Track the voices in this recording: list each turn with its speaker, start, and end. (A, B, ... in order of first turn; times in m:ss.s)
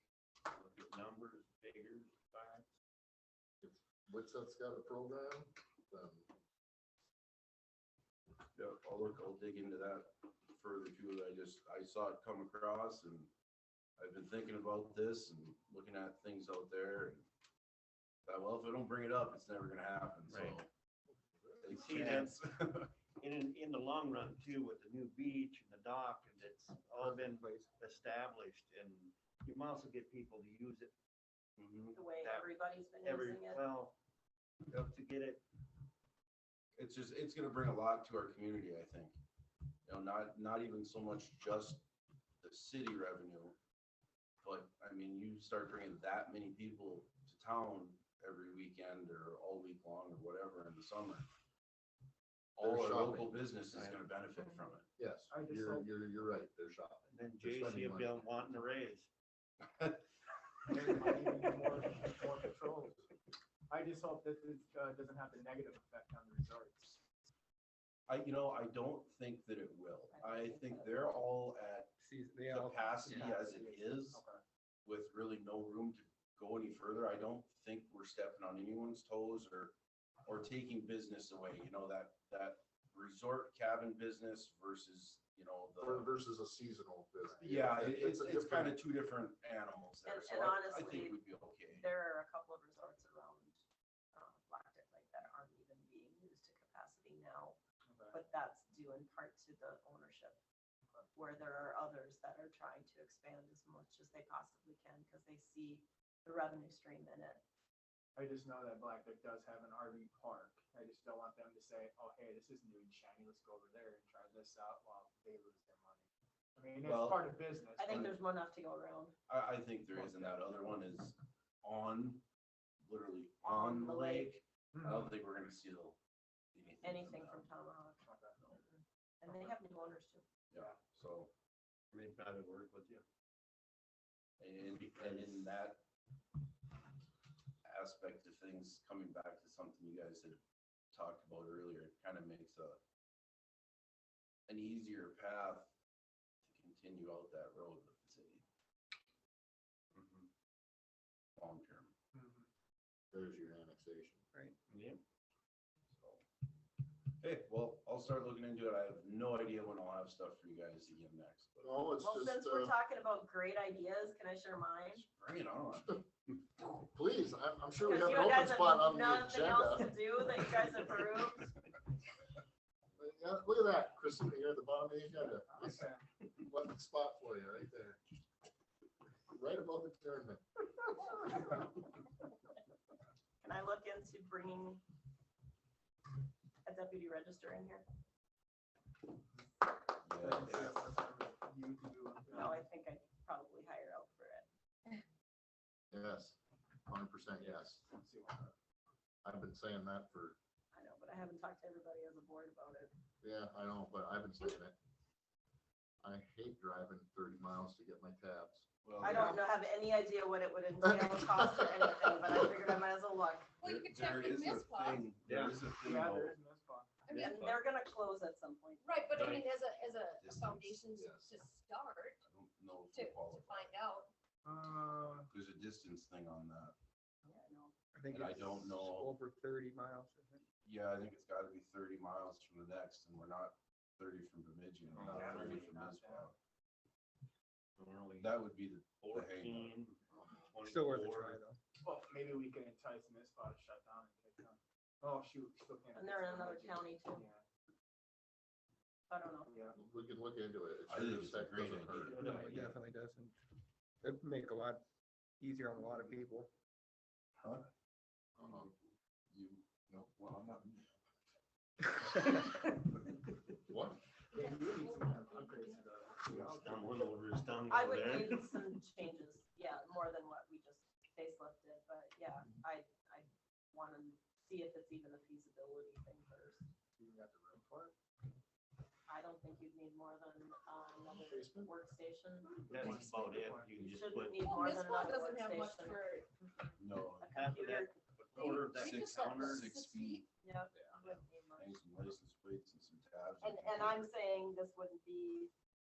0:00.5-0:02.7 A
0:03.6-0:06.3 B
0:08.6-0:13.3 C
0:14.0-0:17.3 C
0:18.3-0:20.7 C
0:20.3-0:20.6 A
0:21.2-0:22.1 B
0:21.6-0:22.9 C
0:21.7-0:22.4 A
0:23.2-0:30.9 A
0:27.0-0:27.7 D
0:31.6-0:32.0 C
0:31.9-0:33.6 E
0:32.1-0:33.9 A
0:34.7-0:35.4 A
0:36.8-0:39.2 C
0:39.9-0:41.8 C
0:42.4-0:43.6 C
0:44.4-0:51.3 C
0:52.6-0:54.9 C
0:52.6-0:53.4 B
0:53.7-0:54.0 A
0:55.0-0:58.2 B
0:55.3-0:55.9 F
0:57.1-0:59.1 A
1:00.7-1:03.1 F
1:03.7-1:07.0 F
1:08.1-1:14.2 C
1:10.1-1:11.1 E
1:12.0-1:13.3 D
1:13.2-1:14.4 F
1:14.9-1:26.1 C
1:25.8-1:28.8 B
1:27.3-1:31.9 C
1:30.0-1:33.6 E
1:34.1-1:37.6 E
1:37.9-1:38.2 F
1:38.1-1:40.4 E
1:41.1-1:47.4 E
1:48.2-1:56.0 F
1:56.6-1:58.1 F
1:56.8-1:57.4 C
1:57.8-1:59.1 E
1:59.3-2:02.2 C
2:00.0-2:00.3 F
2:02.8-2:06.0 C
2:03.5-2:04.3 E
2:04.8-2:05.0 F
2:06.6-2:07.5 C
2:06.8-2:10.3 E
2:08.0-2:08.4 F
2:10.5-2:11.3 C
2:11.9-2:13.0 A
2:14.4-2:15.8 C
2:15.0-2:15.3 A
2:17.6-2:20.4 C
2:20.9-2:22.8 C
2:24.5-2:25.7 C
2:26.4-2:28.4 C
2:30.0-2:30.3 A
2:31.4-2:31.9 C
2:32.2-2:32.5 F
2:33.1-2:34.2 B
2:34.7-2:35.0 A
2:35.9-2:36.2 C
2:37.2-2:41.8 C
2:41.6-2:42.7 B
2:42.0-2:45.0 E
2:44.9-2:46.1 C
2:46.7-2:50.0 B
2:47.8-2:51.5 E
2:53.0-2:55.8 B
2:55.5-2:56.0 F
2:56.4-2:58.0 B
2:59.3-3:00.4 B
3:03.4-3:04.8 E
3:06.6-3:07.8 E
3:10.0-3:10.8 C
3:10.2-3:11.2 D
3:10.4-3:12.6 F
3:12.3-3:14.5 E
3:15.9-3:17.8 B
3:17.4-3:18.5 F
3:19.2-3:20.4 B
3:20.7-3:22.9 E
3:23.2-3:24.7 B
3:26.0-3:28.6 B
3:28.8-3:29.4 C
3:29.0-3:33.6 E
3:33.6-3:35.0 G
3:33.6-3:36.4 C
3:35.2-3:35.6 A
3:35.8-3:36.9 F
3:37.1-3:37.6 G
3:37.1-3:37.6 A
3:37.1-3:39.3 E
3:38.8-3:42.2 G
3:39.2-3:39.4 A
3:40.2-3:40.8 C
3:40.9-3:41.3 B
3:42.2-3:43.8 C
3:42.9-3:44.1 G
3:44.4-3:45.3 F
3:45.3-3:46.8 C
3:47.3-3:47.7 E
3:48.0-3:50.4 D
3:48.1-3:49.2 C
3:50.6-3:56.4 C
3:55.0-3:55.6 A
3:55.0-3:56.3 F
3:57.8-3:58.4 A
3:58.2-3:59.8 C
3:59.0-4:01.4 A
4:00.6-4:01.6 D
4:01.8-4:07.4 F
4:05.9-4:07.2 E
4:09.1-4:09.6 E
4:09.5-4:09.8 F
4:09.8-4:12.6 B
4:10.9-4:12.3 C
4:11.9-4:12.8 A
4:12.2-4:13.4 D
4:14.0-4:14.8 D
4:15.4-4:16.5 D
4:18.4-4:18.7 B
4:19.3-4:20.8 C
4:23.7-4:24.0 B
4:24.3-4:27.1 F
4:24.4-4:25.6 G
4:26.3-4:28.7 A
4:27.7-4:36.6 E
4:37.0-4:37.9 B
4:39.1-4:42.9 E
4:41.1-4:41.7 B
4:42.7-4:44.6 A
4:43.3-4:43.7 F
4:43.8-4:46.7 E
4:44.4-4:46.3 G
4:46.8-4:47.6 C
4:47.2-4:47.9 E
4:47.3-4:49.7 A
4:48.3-4:50.2 C
4:48.5-4:50.2 G
4:50.4-4:51.8 E
4:50.8-4:54.0 C
4:53.4-4:55.5 E